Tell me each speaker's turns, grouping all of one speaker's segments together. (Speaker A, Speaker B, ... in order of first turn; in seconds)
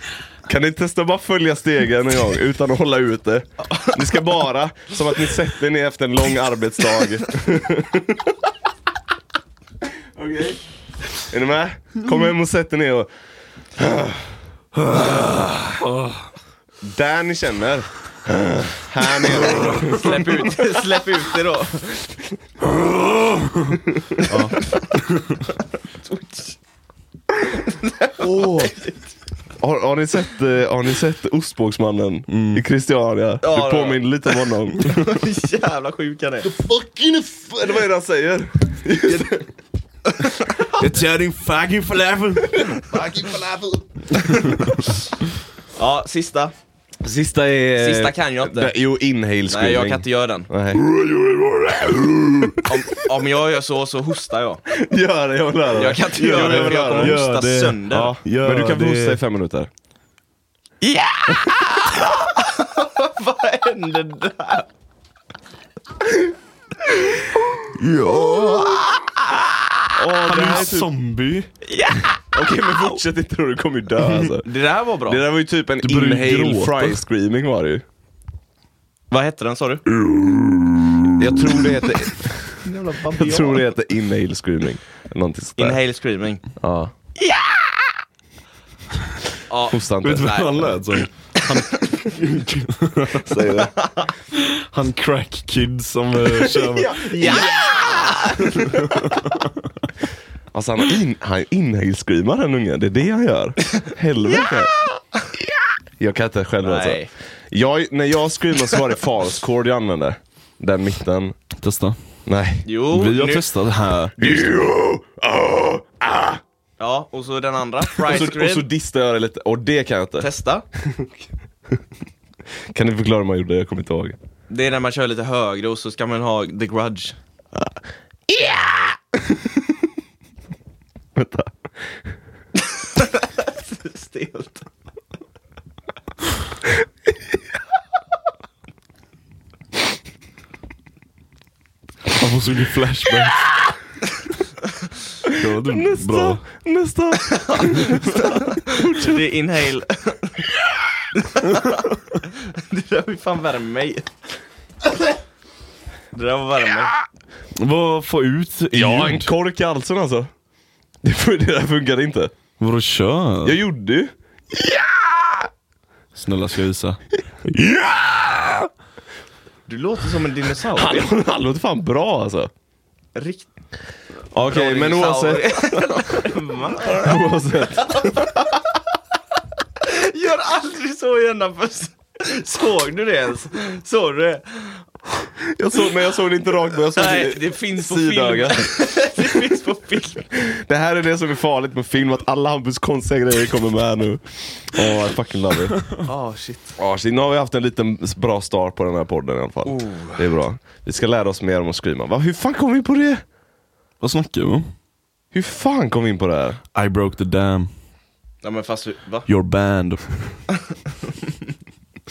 Speaker A: 0.4-8.4, 10.1-10.6, 11.2-13.1, 13.8-14.4, 16.8-20.7, 23.9-24.2, 29.6-35.0, 37.4-39.5, 42.7-43.8, 47.0-50.9, 51.8-52.8, 54.7-57.2, 57.9-59.7, 69.9-70.9, 72.3-74.5, 75.0-77.8, 81.2-82.6, 83.1-85.8, 86.6-86.9, 89.7-90.4, 93.1-93.7, 97.2-98.2, 100.5-104.7, 106.0-111.3, 112.2-112.7, 114.2-116.4, 118.0-120.3, 120.8-121.1, 122.7-124.2, 128.3-129.5, 131.1-131.7, 145.2-149.2, 158.7-160.3, 161.0-162.3, 163.4-165.4, 170.7-172.5, 174.3-178.6, 185.4-188.7, 190.3-195.8, 196.8-203.2, 205.3-206.6
Speaker B: 3.7-4.0, 19.3-22.1, 26.0-26.6, 27.6-28.9, 33.4-36.5, 40.2-40.6, 45.7-46.5, 47.8-48.7, 49.5-50.5, 52.6-54.6, 55.7-58.1, 60.8-64.7, 68.6-68.9, 71.6-72.9, 74.2-75.2, 79.1-79.8, 82.6-83.7, 85.6-86.4, 87.2-87.8, 89.5-90.7, 93.8-94.1, 96.8-98.8, 106.6-107.1, 112.6-113.5, 116.8-118.7, 120.2-120.6, 124.5-127.2, 132.6-134.7, 147.4-150.5, 151.2-154.1, 156.1-156.9, 169.7-171.1, 173.1-173.5, 174.4-177.2, 177.8-178.2, 179.8-184.8, 186.9-190.2, 196.0-196.8, 199.6-200.3, 208.4-209.3
Speaker C: 24.3-25.2, 28.2-28.8, 32.3-32.6, 36.5-37.5, 40.7-43.0, 44.1-44.9, 50.9-52.4, 56.2-59.2, 67.7-68.9, 70.2-71.5, 75.8-77.0, 80.0-81.2, 90.0-93.3, 94.3-97.5, 98.5-99.5, 111.6-112.0, 112.9-114.4, 142.1-143.5, 145.3-146.4, 157.6-159.3, 162.6-163.6, 166.1-168.7, 204.0-204.7, 206.7-207.7, 209.3-210.4